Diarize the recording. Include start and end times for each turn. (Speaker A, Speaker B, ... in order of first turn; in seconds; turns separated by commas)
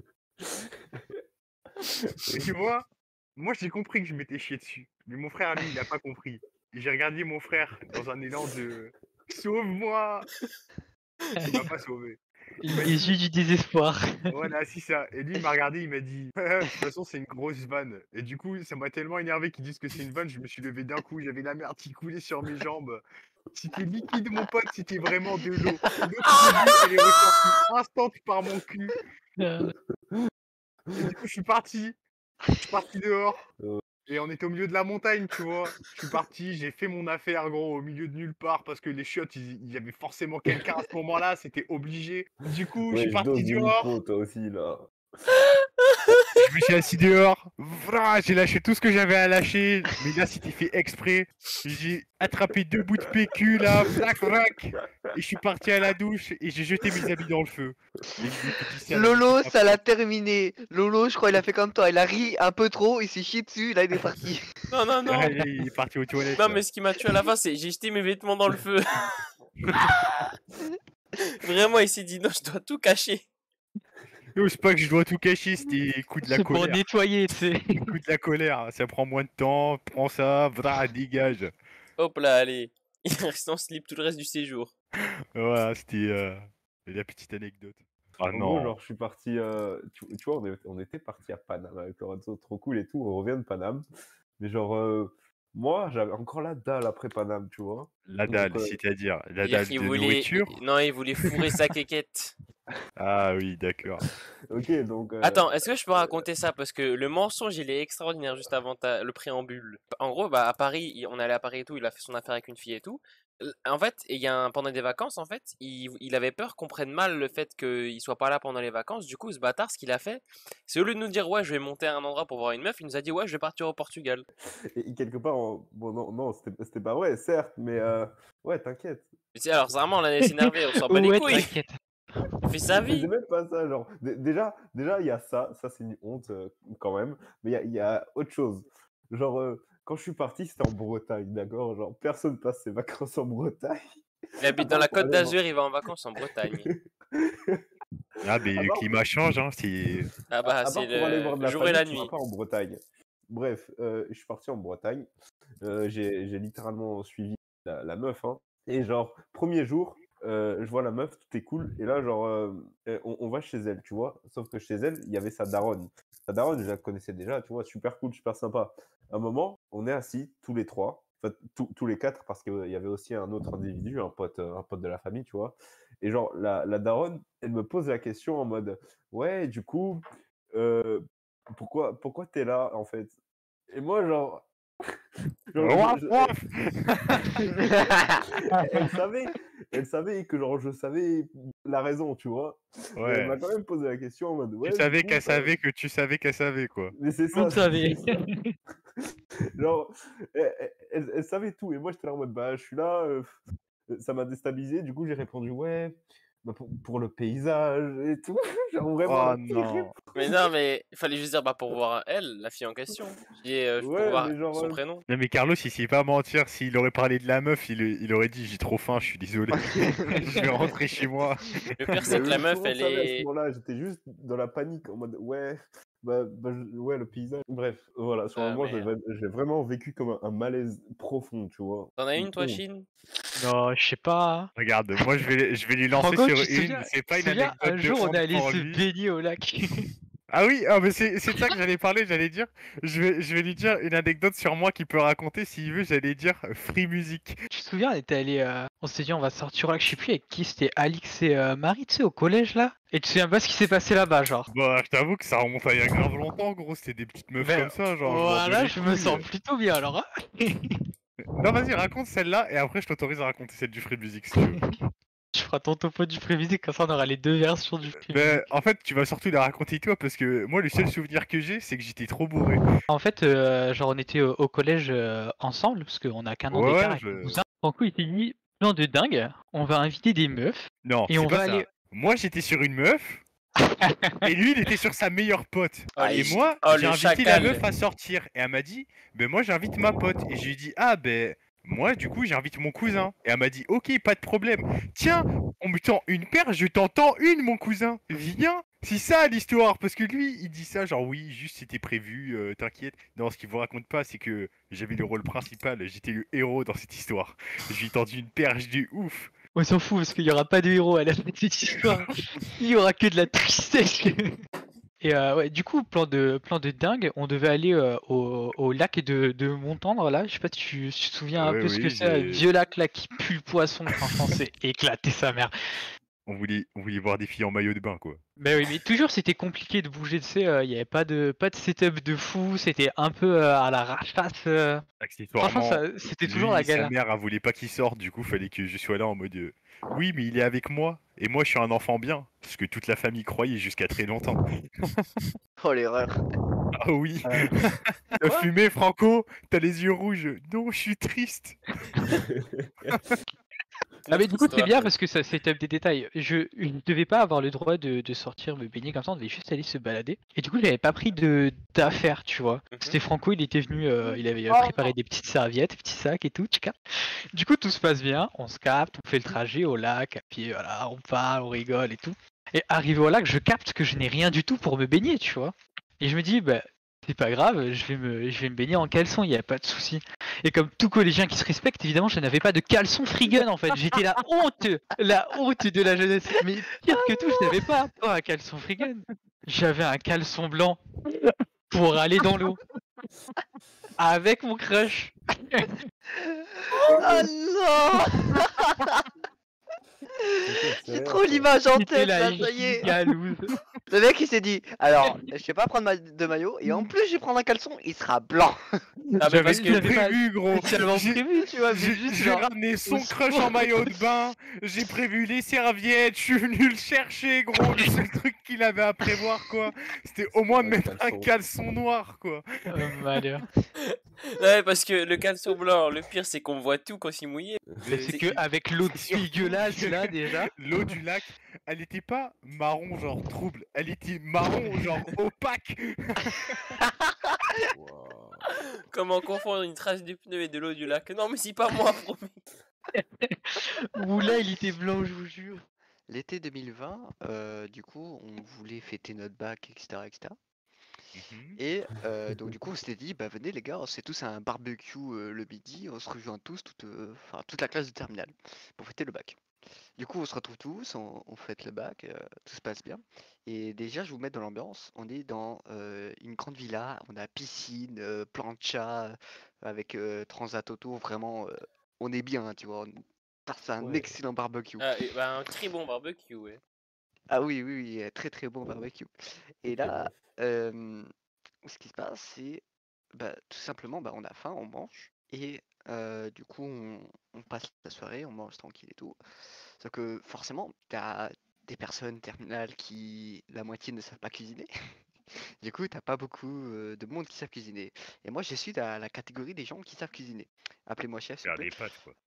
Speaker A: 0.9-1.2, Speaker A: 2.0-2.5, Speaker B: 2.3-10.3, Speaker C: 11.4-11.7, Speaker B: 11.5-13.1, Speaker C: 12.6-14.3, Speaker B: 14.3-23.0, Speaker B: 23.5-28.9, Speaker D: 25.6-27.2, Speaker C: 29.4-29.7, Speaker B: 30.9-32.0, Speaker B: 32.6-33.4, Speaker B: 34.1-43.9, Speaker A: 42.9-44.9, Speaker B: 46.4-59.8, Speaker D: 58.9-64.5, Speaker E: 64.7-65.3, Speaker B: 65.1-66.6, Speaker E: 66.3-69.0, Speaker E: 71.3-73.3, Speaker B: 74.3-76.8, Speaker C: 76.2-78.0, Speaker B: 77.8-81.5, Speaker E: 82.0-84.7, Speaker B: 85.0-88.8, Speaker A: 88.3-93.8, Speaker A: 94.4-98.8, Speaker B: 98.1-100.6, Speaker E: 99.4-102.3, Speaker B: 103.0-104.1, Speaker A: 104.5-106.3, Speaker E: 105.2-113.0, Speaker E: 113.7-124.2, Speaker A: 124.7-129.1, Speaker E: 129.3-131.6, Speaker C: 130.4-132.3, Speaker E: 132.4-133.1, Speaker A: 132.7-143.8, Speaker E: 144.4-146.7, Speaker A: 144.4-145.4, Speaker A: 146.7-147.6, Speaker B: 148.2-150.1, Speaker A: 148.3-149.0, Speaker E: 150.3-152.1, Speaker A: 150.5-155.1, Speaker A: 155.6-181.0, Speaker A: 181.5-183.2, Speaker A: 183.7-184.5, Speaker A: 185.5-186.4, Speaker B: 185.6-187.5, Speaker D: 187.6-188.2, Speaker A: 188.6-195.5, Speaker B: 193.0-193.4, Speaker B: 194.6-196.9, Speaker A: 196.9-198.0, Speaker C: 197.3-198.5, Speaker A: 199.6-203.4, Speaker A: 203.9-210.5, Speaker B: 209.0-209.9, Speaker E: 210.1-215.0, Speaker A: 213.8-214.8, Speaker B: 215.1-221.5, Speaker D: 219.6-220.3, Speaker E: 221.8-223.3, Speaker A: 222.0-232.6, Speaker E: 228.4-228.9, Speaker E: 232.0-232.9, Speaker C: 233.4-234.5, Speaker B: 234.6-238.8, Speaker C: 235.9-239.9, Speaker B: 240.3-247.4, Speaker C: 247.5-254.5, Speaker B: 254.5-259.3, Speaker C: 257.4-260.8, Speaker B: 261.4-264.6, Speaker C: 265.4-268.4, Speaker B: 268.0-272.6, Speaker C: 272.9-281.7, Speaker B: 276.5-277.4, Speaker B: 280.8-283.2, Speaker C: 283.8-284.3, Speaker B: 284.2-309.3, Speaker E: 286.0-287.6, Speaker C: 309.6-314.2, Speaker C: 315.0-325.5, Speaker B: 321.4-322.4, Speaker B: 326.3-328.2, Speaker C: 328.4-334.8, Speaker B: 335.0-345.3, Speaker C: 335.4-336.9, Speaker D: 345.6-346.2, Speaker B: 346.8-351.6, Speaker A: 347.3-347.5, Speaker A: 352.4-352.9, Speaker B: 352.9-353.2, Speaker E: 354.1-354.9, Speaker C: 354.1-366.8, Speaker E: 362.7-363.0, Speaker C: 367.3-390.8, Speaker C: 391.7-392.6, Speaker C: 394.0-395.7, Speaker D: 396.2-399.1, Speaker D: 400.3-402.9, Speaker A: 400.4-401.5, Speaker C: 401.7-403.5, Speaker D: 403.9-408.6, Speaker E: 409.2-409.9, Speaker C: 409.2-414.0, Speaker B: 409.4-422.5, Speaker A: 420.6-421.3, Speaker C: 422.7-423.4, Speaker E: 423.9-428.3, Speaker C: 427.9-430.5, Speaker B: 428.0-436.6, Speaker A: 437.7-438.5, Speaker E: 438.9-442.4, Speaker C: 442.9-445.6, Speaker D: 446.1-450.4, Speaker B: 451.1-451.6, Speaker D: 451.6-459.4, Speaker D: 460.0-472.9, Speaker D: 473.5-474.9, Speaker A: 473.8-474.1, Speaker E: 474.8-476.6, Speaker D: 477.3-479.1, Speaker D: 479.6-481.1, Speaker A: 479.7-480.1, Speaker D: 481.7-482.6, Speaker D: 483.1-489.2, Speaker D: 489.8-494.7, Speaker D: 495.6-501.7, Speaker B: 501.4-502.2